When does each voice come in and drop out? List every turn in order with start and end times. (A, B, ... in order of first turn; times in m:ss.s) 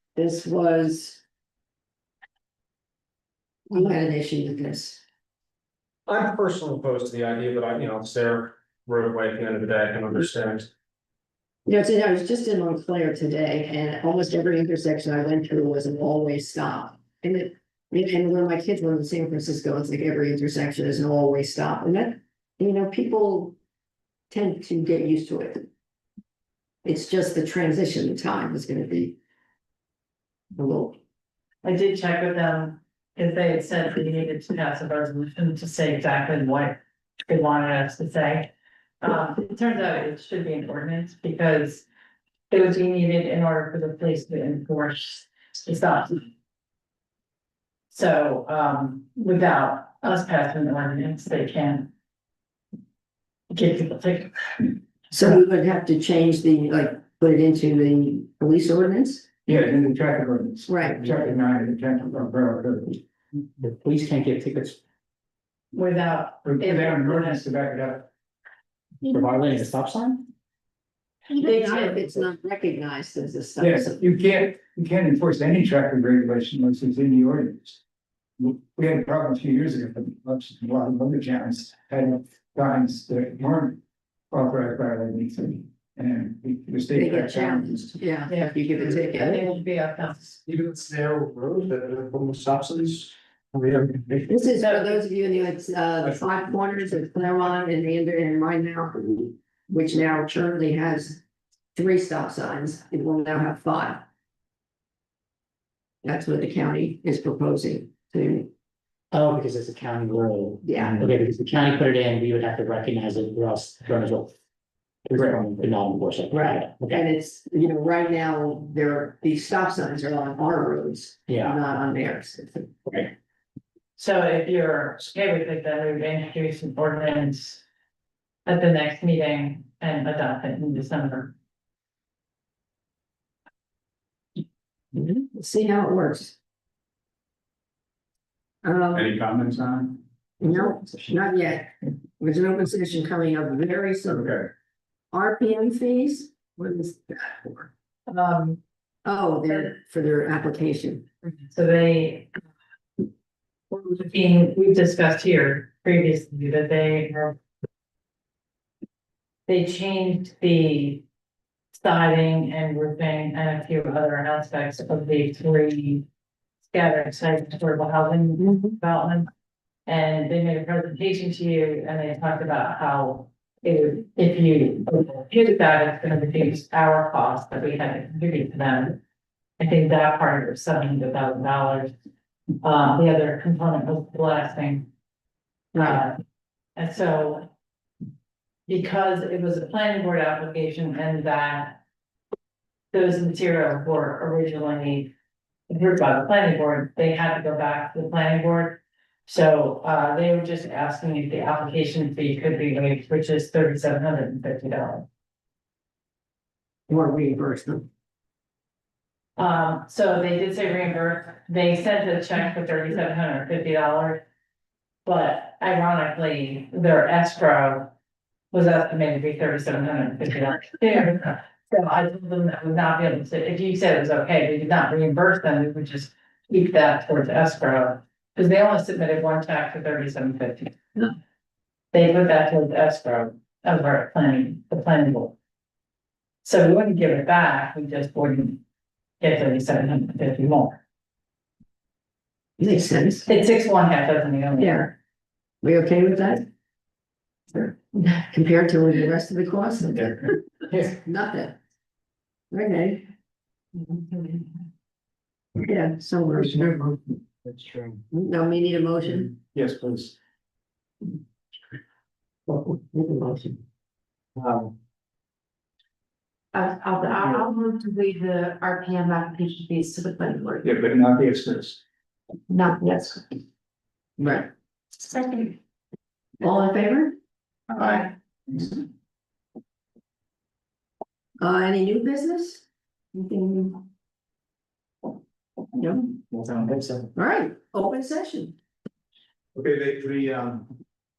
0:00.2-0:01.2 A
0:03.7-0:05.0 A
0:06.1-0:10.7 B
0:11.7-0:23.6 A
0:24.3-0:25.7 A
0:26.8-0:29.2 A
0:30.6-0:31.0 A
0:31.6-0:38.5 C
0:39.0-0:41.8 C
0:42.5-0:46.2 C
0:47.9-0:51.9 C
0:53.5-0:55.4 C
0:55.1-0:59.3 A
0:59.5-1:03.0 D
1:00.7-1:01.1 A
1:03.6-1:04.8 E
1:05.7-1:07.4 C
1:06.4-1:08.1 D
1:09.1-1:10.3 E
1:11.4-1:14.0 A
1:11.5-1:12.0 F
1:13.6-1:17.8 D
1:18.4-1:23.8 D
1:24.3-1:27.9 D
1:26.9-1:29.5 A
1:28.3-1:30.4 C
1:30.5-1:34.3 B
1:34.3-1:41.2 A
1:34.6-1:35.0 C
1:41.8-1:44.0 A
1:46.0-1:48.5 A
1:49.1-1:54.3 E
1:50.6-1:51.0 A
1:55.0-1:57.0 E
1:56.3-2:02.9 A
2:01.3-2:01.6 E
2:04.0-2:07.6 C
2:08.5-2:11.3 C
2:14.9-2:16.4 A
2:18.6-2:19.1 A
2:18.9-2:20.0 D
2:20.4-2:24.4 A
2:24.1-2:24.5 D
2:25.1-2:27.7 A
2:28.1-2:28.6 C
2:29.0-2:31.0 A
2:31.3-2:32.3 C
2:33.7-2:37.4 C
2:39.5-2:41.0 C
2:41.7-2:46.1 C
2:46.7-2:49.3 C
2:49.9-2:59.0 C
2:59.6-3:01.9 C
3:02.6-3:04.9 C
3:05.8-3:06.0 A
3:05.8-3:06.2 C
3:06.8-3:07.5 C
3:08.7-3:11.8 C
3:12.9-3:15.1 C
3:15.7-3:25.1 C
3:26.9-3:27.9 A
3:29.4-3:34.2 C
3:35.0-3:37.9 C
3:38.5-3:50.8 C
3:51.9-3:55.4 C
3:56.4-3:58.6 C
3:59.2-4:00.8 C
4:02.6-4:03.3 A
4:03.3-4:04.9 C
4:04.6-4:04.9 A
4:05.6-4:06.5 A
4:07.5-4:11.6 A
4:12.5-4:13.1 A
4:15.6-4:17.0 A
4:16.4-4:16.9 D
4:17.4-4:18.0 D
4:18.1-4:19.4 A
4:19.4-4:20.1 D
4:22.5-4:23.6 A
4:26.5-4:30.7 F
4:30.6-4:31.8 D
4:32.5-4:33.2 F
4:34.2-4:34.5 A
4:35.0-4:35.6 F
4:36.4-4:37.2 A
4:37.8-4:38.1 F
4:37.8-4:38.7 D
4:41.4-4:43.9 A
4:45.8-4:46.2 A
4:46.3-4:47.0 D
4:47.2-4:48.6 A
4:49.6-4:50.7 D